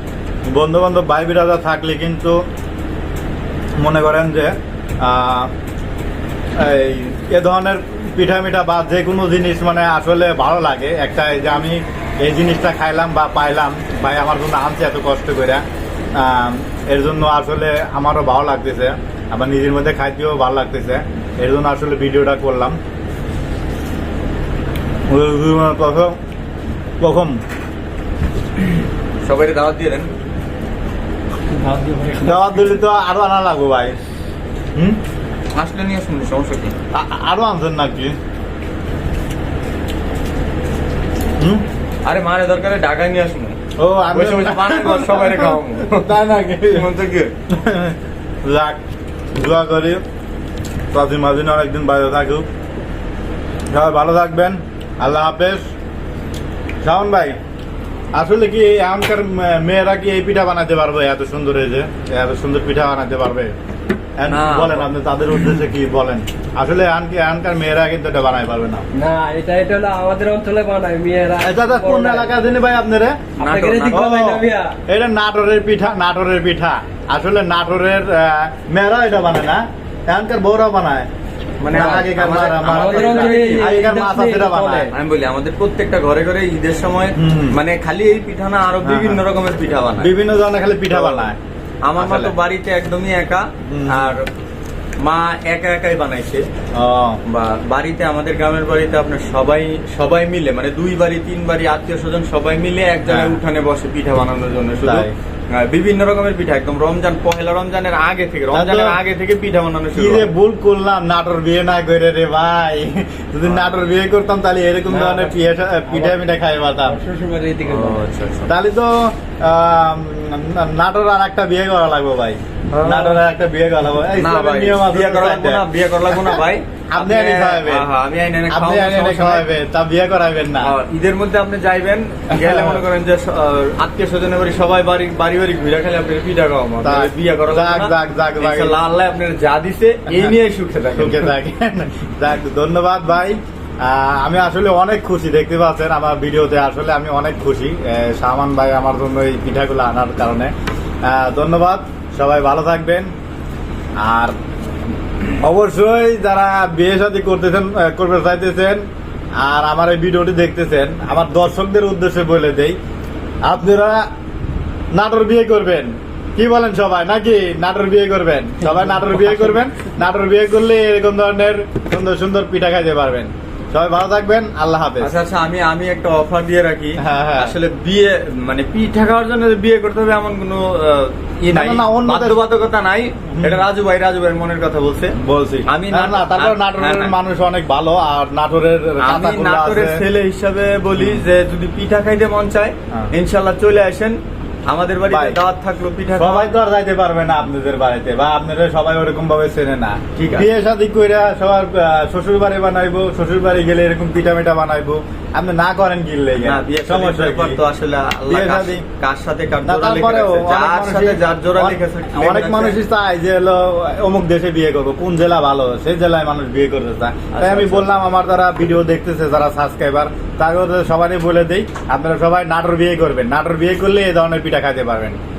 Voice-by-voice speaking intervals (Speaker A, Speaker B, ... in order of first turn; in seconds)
Speaker A: 0.5-2.4, 3.8-5.5, 6.6-15.6, 16.1-22.8, 25.1-26.2, 27.0-27.4, 32.2-34.0, 36.9-38.2, 43.8-46.9, 47.5-48.8, 49.4-50.0, 50.9-52.5, 53.7-55.6, 56.8-57.4, 58.1-63.6, 64.2-68.9, 71.4-73.2, 73.9-81.1, 81.7-84.9, 87.2-87.6, 88.8-89.2, 90.0-91.4, 92.0-92.3, 93.7-94.1, 96.7-97.2, 103.1-103.4, 104.8-105.1, 108.5-109.0, 110.0-117.0, 118.5-126.3, 126.9-127.9, 128.5-130.8, 132.3-132.8, 136.8-138.8, 140.9-150.5, 151.0-153.1, 154.0-154.3, 155.4-158.8, 159.4-162.8, 163.4-164.1, 164.9-175.2, 177.0-177.6, 181.5-182.4, 183.3-183.6, 185.2-190.0, 195.1-195.4, 196.2-207.6, 208.3-208.8, 209.6-225.2
Speaker B: 29.2-30.1, 35.5-36.8, 42.0-43.6, 44.1-47.3, 64.3-64.9, 73.4-74.5, 81.6-83.8, 84.9-90.1, 90.9-91.3, 91.8-94.3, 95.0-96.5, 97.2-110.3, 113.5-113.8, 117.6-118.5, 122.7-123.2, 124.1-129.5, 130.6-141.3, 175.0-187.2, 189.0-196.5, 200.2-200.5, 206.3-212.8, 217.3-217.9
Speaker C: 69.0-72.3, 73.4-74.8, 81.8-82.1, 82.7-84.9, 114.9-115.3, 115.9-116.2, 117.0-118.0